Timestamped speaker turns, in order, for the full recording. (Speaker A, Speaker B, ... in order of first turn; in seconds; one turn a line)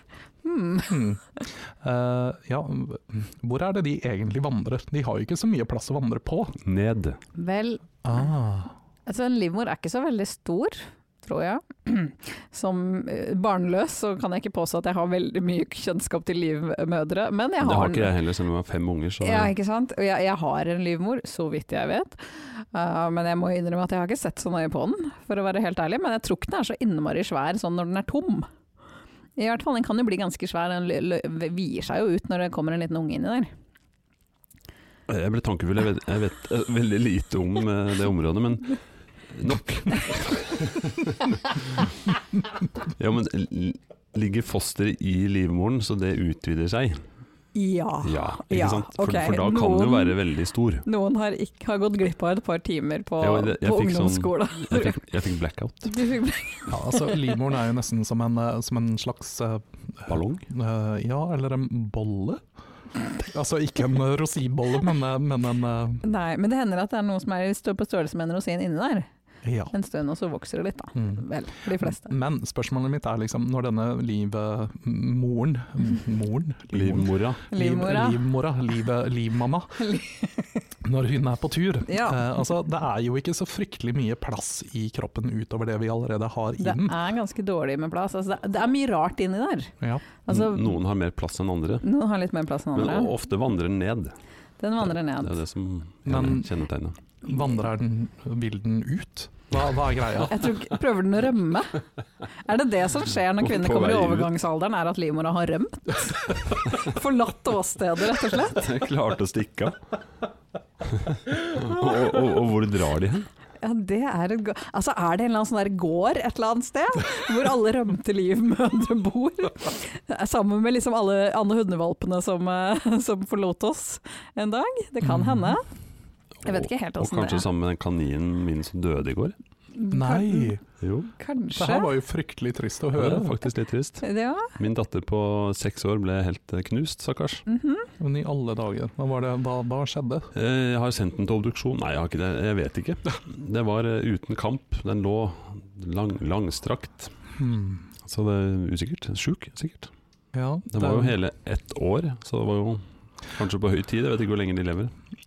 Speaker A: 0.4-1.0
Speaker B: 0.9-6.5
Speaker C: 6.6-7.2
Speaker A: 7.3-7.8
Speaker B: 8.0-8.7
Speaker A: 9.1-18.1
Speaker C: 17.6-19.5
Speaker A: 19.2-28.5
Speaker A: 29.4-33.5
Speaker C: 35.1-41.3
Speaker C: 42.9-47.0
Speaker A: 47.5-50.2
Speaker C: 48.0-50.9
Speaker A: 50.8-55.0
Speaker C: 53.2-55.9
Speaker A: 55.9-57.4
Speaker B: 56.7-62.4
Speaker C: 60.1-60.5
Speaker B: 63.1-66.0
Speaker A: 66.0-69.1
Speaker B: 69.4-69.7
Speaker A: 69.7-72.1
Speaker B: 71.0-71.2
Speaker B: 71.8-79.8
Speaker C: 76.7-77.4
Speaker A: 77.5-78.2
Speaker A: 79.8-80.6
Speaker B: 80.8-87.0
Speaker A: 81.8-82.2
Speaker A: 86.6-89.7
Speaker A: 90.2-90.8
Speaker C: 90.3-91.8
Speaker A: 91.8-93.1
Speaker C: 92.7-94.1
Speaker A: 94.6-95.4
Speaker C: 95.2-97.0
Speaker B: 96.0-96.5
Speaker B: 97.2-100.4
Speaker A: 100.2-101.8
Speaker A: 102.4-108.6
Speaker C: 103.4-104.3
Speaker C: 108.5-109.8
Speaker C: 111.0-113.3
Speaker A: 113.6-125.6
Speaker B: 125.0-125.5
Speaker A: 126.4-127.5
Speaker C: 126.4-129.3
Speaker A: 129.7-130.5
Speaker B: 129.9-130.6
Speaker C: 130.8-131.1
Speaker A: 131.2-131.9
Speaker B: 131.5-133.4
Speaker C: 132.9-137.4
Speaker A: 134.0-134.5
Speaker A: 137.5-137.9
Speaker B: 138.0-140.3
Speaker C: 140.3-147.1
Speaker B: 147.4-147.8
Speaker C: 148.0-149.9
Speaker B: 150.3-151.2
Speaker C: 150.7-154.9